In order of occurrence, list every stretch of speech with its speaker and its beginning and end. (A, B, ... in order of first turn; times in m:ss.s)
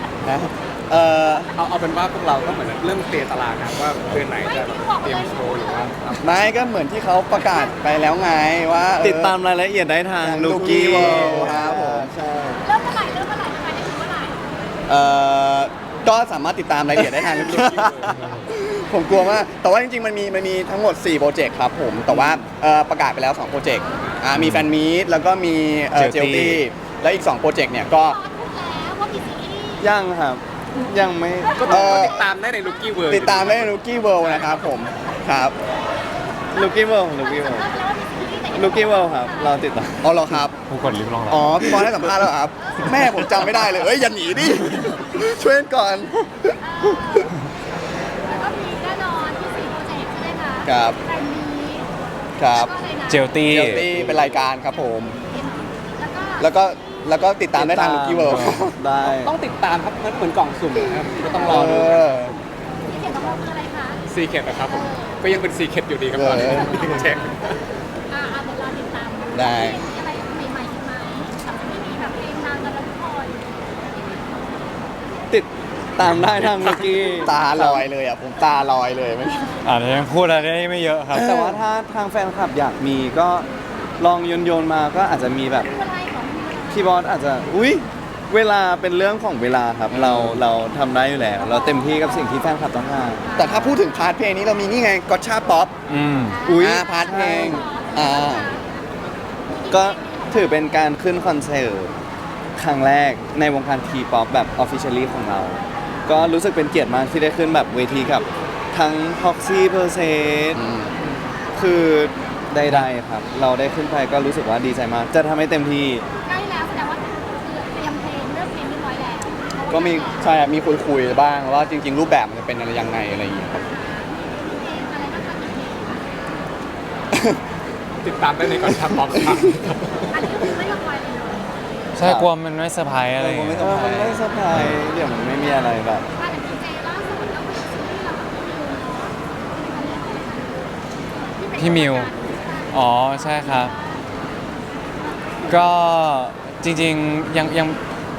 0:00.2-0:01.5 A
0:01.5-0:06.3 B
0:04.4-0:05.9 C
0:06.2-0:09.4 A
0:09.0-0:12.7 D
0:10.2-0:12.1 A
0:11.0-0:11.3 B
0:12.6-0:14.4 C
0:14.9-0:28.2 A
0:17.3-0:18.4 B
0:22.1-0:22.4 D
0:24.4-0:24.7 E
0:25.9-0:26.6 E
0:27.9-0:29.9 C
0:29.8-0:32.0 D
0:31.5-0:34.7 B
0:31.7-0:32.1 A
0:33.1-0:35.5 A
0:36.5-0:37.7 D
0:37.2-0:39.6 C
0:38.5-0:40.0 D
0:40.0-0:40.5 A
0:40.7-0:42.1 E
0:41.3-0:47.2 A
0:46.6-0:47.3 C
0:48.2-0:51.9 C
0:50.6-0:51.0 A
0:52.4-0:52.7 A
0:52.5-0:53.4 C
0:53.1-0:53.9 E
0:53.5-0:55.2 A
0:53.9-0:54.3 D
0:55.2-0:56.5 C
0:56.4-0:58.8 A
0:57.5-0:59.3 D
0:59.0-1:02.4 B
1:01.2-1:01.8 C
1:01.4-1:02.3 A
1:02.9-1:04.0 C
1:04.1-1:07.6 B
1:04.6-1:05.2 C
1:06.1-1:07.1 A
1:08.1-1:13.4 C
1:09.3-1:09.8 A
1:15.3-1:17.8 D
1:16.6-1:19.6 A
1:19.6-1:21.6 E
1:21.1-1:23.5 D
1:21.2-1:21.4 A
1:24.0-1:25.7 D
1:25.6-1:27.0 C
1:26.7-1:33.7 D
1:29.9-1:30.2 A
1:31.4-1:32.6 C
1:33.2-1:33.5 C
1:33.4-1:35.8 A
1:35.9-1:36.5 E
1:36.3-1:38.6 C
1:36.4-1:37.6 D
1:36.5-1:38.5 A
1:39.5-1:40.7 C
1:39.7-1:41.9 D
1:42.6-1:50.6 D
1:50.5-1:51.1 A
1:51.5-1:56.0 D
1:56.2-2:00.3 C
1:59.7-2:03.6 A
2:03.5-2:06.1 C
2:08.0-2:10.2 B
2:10.1-2:11.5 C
2:12.0-2:13.7 E
2:13.2-2:14.2 A
2:13.2-2:16.0 D
2:14.5-2:14.8 E
2:16.1-2:20.7 C
2:21.2-2:24.0 C
2:21.6-2:22.1 E
2:22.7-2:23.7 E
2:25.5-2:27.8 E